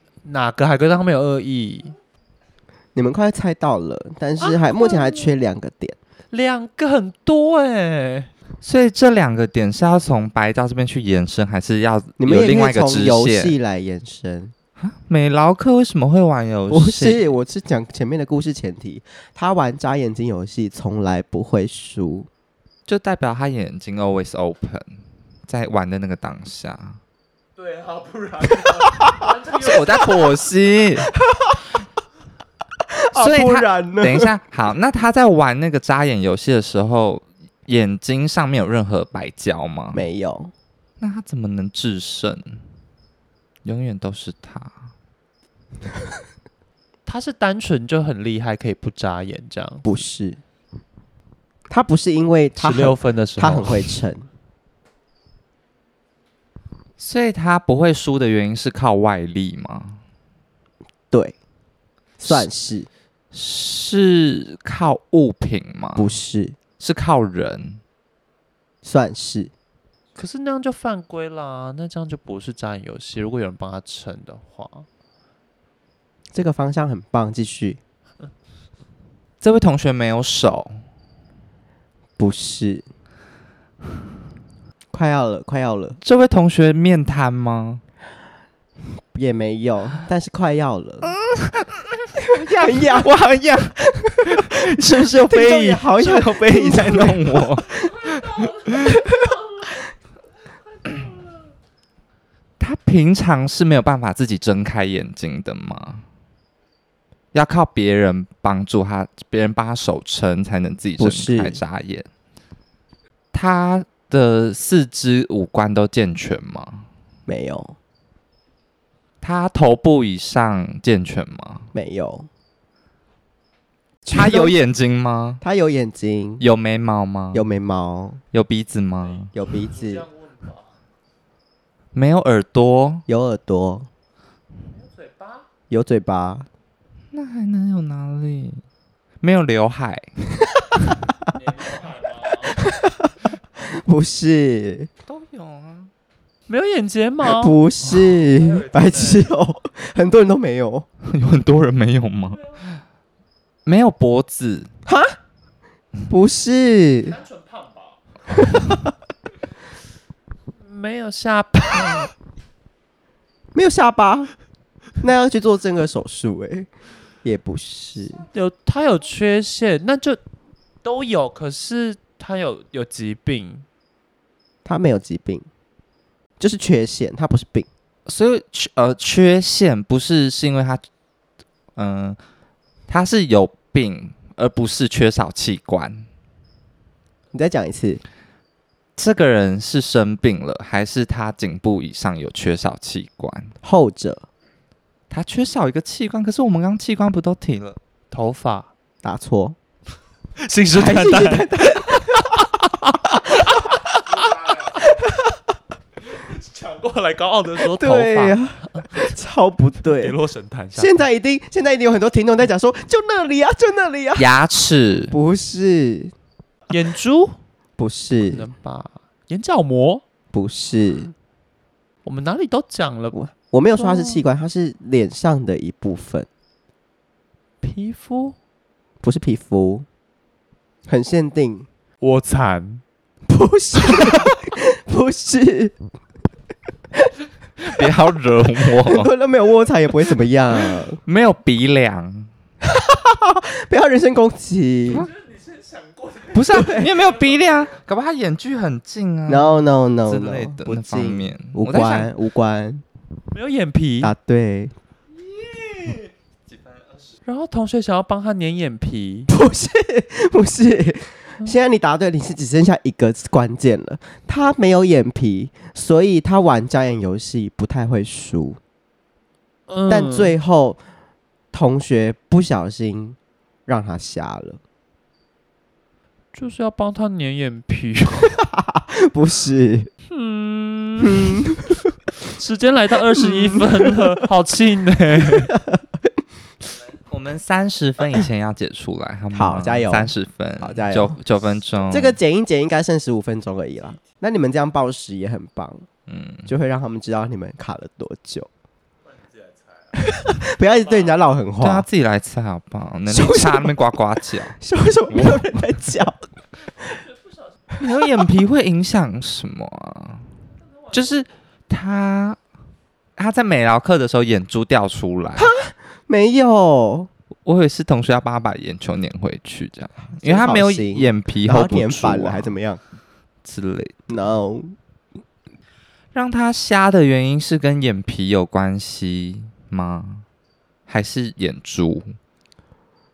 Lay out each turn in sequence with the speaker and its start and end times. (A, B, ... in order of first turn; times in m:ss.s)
0:00.2-0:02.0 A
0:03.0-0:06.0 B
0:04.4-0:05.3 A
0:06.3-0:08.3 A
0:08.6-0:13.6 C
0:12.2-0:14.5 B
0:14.8-0:17.3 C
0:16.7-0:22.3 B
0:22.9-0:24.9 C
0:25.5-0:27.0 C
0:27.6-0:30.4 A
0:29.5-0:31.1 C
0:31.3-0:31.6 B
0:32.9-0:34.3 B
0:33.2-0:40.0 C
0:39.9-0:40.5 B
0:41.0-0:42.6 C
0:43.6-0:44.8 C
0:47.1-0:49.9 A
0:49.8-0:50.4 B
0:51.7-0:54.2 B
0:52.6-0:54.0 A
0:57.0-1:00.0 C
1:01.1-1:01.4 B
1:02.2-1:02.9 B
1:03.3-1:06.1 C
1:06.0-1:06.6 B
1:06.8-1:07.8 C
1:08.8-1:09.5 B
1:10.2-1:14.9 A
1:16.3-1:17.8 B
1:19.4-1:20.8 C
1:22.2-1:22.9 B
1:24.9-1:26.0 B
1:26.0-1:27.8 C
1:29.1-1:31.1 B
1:31.3-1:31.9 C
1:32.2-1:33.1 B
1:32.5-1:39.0 C
1:34.0-1:34.6 B
1:35.2-1:37.9 B
1:38.1-1:39.6 A
1:38.8-1:39.2 B
1:42.6-1:46.0 C
1:47.3-1:52.1 C
1:51.0-1:51.6 B
1:53.3-1:56.9 C
1:57.3-1:57.7 B
1:59.2-2:01.7 C
2:01.7-2:02.3 B
2:04.0-2:04.6 B
2:04.1-2:05.4 C
2:05.4-2:06.4 B
2:06.4-2:07.4 C
2:07.3-2:08.2 B
2:08.3-2:09.3 C
2:09.2-2:10.7 A
2:09.3-2:10.1 B
2:11.9-2:13.0 C
2:13.1-2:13.9 B
2:14.7-2:15.5 A
2:15.7-2:16.5 B
2:17.1-2:18.6 C
2:19.2-2:20.1 C
2:21.3-2:22.7 A
2:22.6-2:23.1 B
2:23.7-2:24.9 B
2:25.1-2:25.9 C
2:26.5-2:29.3 A
2:27.3-2:30.9 B
2:31.0-2:32.8 C
2:33.7-2:34.7 C
2:34.9-2:35.1 B
2:36.1-2:37.2 B
2:37.1-2:38.0 A
2:38.4-2:38.9 B
2:40.6-2:42.1 A
2:43.6-2:44.3 B
2:45.0-2:46.7 B
2:47.2-2:48.2 B
2:48.3-2:50.2 A
2:50.8-2:53.6 A
2:54.6-2:55.5 B
2:56.4-2:57.7 B
2:58.1-3:00.8 C
3:01.8-3:02.2 C
3:02.9-3:06.0 C
3:07.3-3:08.0 B
3:09.0-3:13.5 C
3:13.6-3:14.2 B
3:15.1-3:17.8 C
3:18.1-3:18.7 A
3:19.0-3:19.6 B
3:20.4-3:24.7 A
3:20.7-3:22.5 B
3:24.2-3:25.2 B
3:26.1-3:29.2 A
3:27.8-3:30.2 B
3:29.8-3:31.0 A
3:30.8-3:34.3 B
3:34.2-3:35.2 C
3:35.1-3:36.1 B
3:36.7-3:37.4 A
3:37.8-3:38.5 B
3:38.3-3:40.0 A
3:40.3-3:41.1 B
3:42.0-3:43.2 A
3:43.1-3:46.3 B
3:43.8-3:44.2 A
3:47.6-3:48.4 A
3:49.0-3:49.8 B
3:50.9-3:51.7 B
3:52.0-3:52.8 A
3:53.3-3:55.8 B
3:57.6-3:59.1 C
3:58.8-4:01.0 B
4:01.0-4:02.3 C
4:02.8-4:05.1 B
4:05.0-4:07.7 A
4:06.3-4:12.1 C
4:06.6-4:06.8 B
4:09.3-4:12.8 B
4:13.3-4:14.1 A
4:14.0-4:14.7 B
4:16.5-4:16.8 C
4:17.2-4:19.3 A
4:19.3-4:28.6 B
4:29.7-4:30.4 A
4:29.9-4:30.8 B
4:31.5-4:34.6 B
4:36.3-4:38.4 A
4:38.5-4:39.9 B
4:40.1-4:41.4 A
4:41.2-4:41.8 B
4:42.3-4:45.5 A
4:45.5-4:45.8 B
4:47.1-4:52.2 C
4:49.3-4:51.2 B
4:51.9-4:55.9 B
4:56.1-4:56.5 C
4:56.5-4:58.5 B
5:00.0-5:01.9 B
5:01.6-5:04.6 C
5:03.1-5:06.2 B
5:05.1-5:05.4 C
5:07.8-5:10.3 C
5:10.9-5:12.4 C
5:13.2-5:15.5 C
5:15.4-5:17.1 B
5:17.4-5:22.6 C
5:20.0-5:22.8 B
5:23.4-5:24.0 C
5:24.1-5:24.7 B
5:26.1-5:30.2 C
5:30.9-5:32.1 C